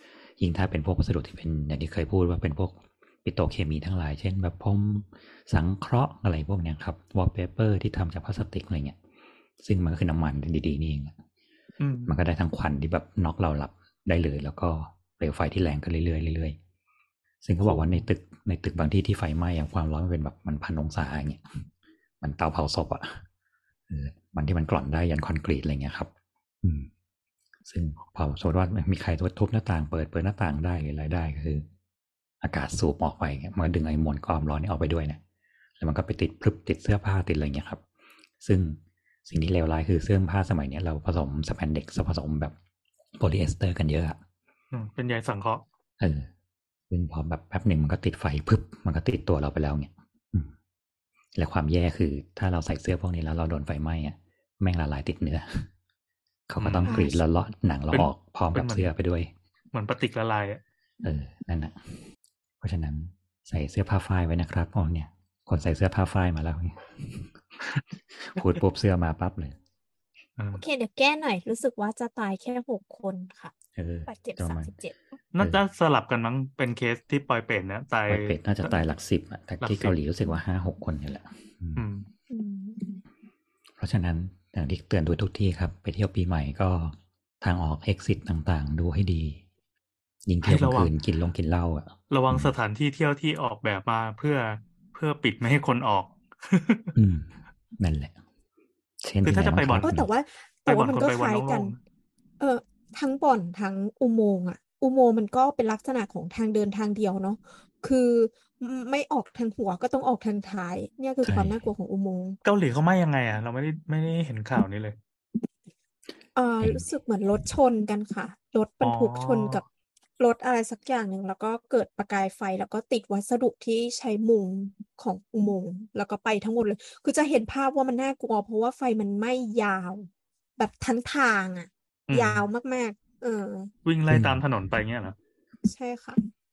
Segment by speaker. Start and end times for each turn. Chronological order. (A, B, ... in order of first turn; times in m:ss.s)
0:00.4-0:09.0 A
0:09.6-0:11.2 A
0:11.8-0:12.1 B
0:12.0-0:16.6 A
0:17.4-0:21.6 A
0:17.6-0:18.0 B
0:22.2-0:23.2 A
0:23.9-0:26.1 A
0:26.6-0:26.9 A
0:27.6-0:31.6 A
0:32.4-0:35.2 A
0:35.8-0:37.8 A
0:38.4-0:42.5 A
0:43.2-0:44.2 A
0:44.7-0:45.6 B
0:46.0-0:46.3 A
0:46.9-0:50.5 A
0:51.3-0:55.7 A
0:56.5-0:59.3 A
0:56.6-0:57.0 B
0:56.8-0:57.2 C
0:57.9-0:58.9 B
0:59.7-1:00.6 B
1:01.0-1:02.0 A
1:02.6-1:07.6 A
1:08.1-1:09.6 A
1:10.4-1:10.6 B
1:10.5-1:13.5 C
1:13.7-1:14.7 A
1:14.1-1:15.0 C
1:15.3-1:18.3 B
1:18.1-1:21.8 A
1:19.6-1:19.9 B
1:21.8-1:22.0 B
1:22.3-1:22.8 C
1:23.8-1:29.4 A
1:30.2-1:32.5 A
1:30.4-1:30.9 B
1:32.1-1:36.9 B
1:36.9-1:38.2 A
1:39.0-1:40.1 A
1:39.2-1:39.9 B
1:39.8-1:41.8 C
1:40.7-1:41.8 B
1:42.4-1:52.4 C
1:51.2-1:51.6 A
1:52.4-1:55.0 B
1:56.3-1:59.6 C
1:56.6-1:56.9 A
1:58.8-1:59.6 B
2:00.2-2:13.7 C
2:12.1-2:12.4 B
2:13.8-2:15.1 B
2:14.1-2:14.4 A
2:15.6-2:16.2 C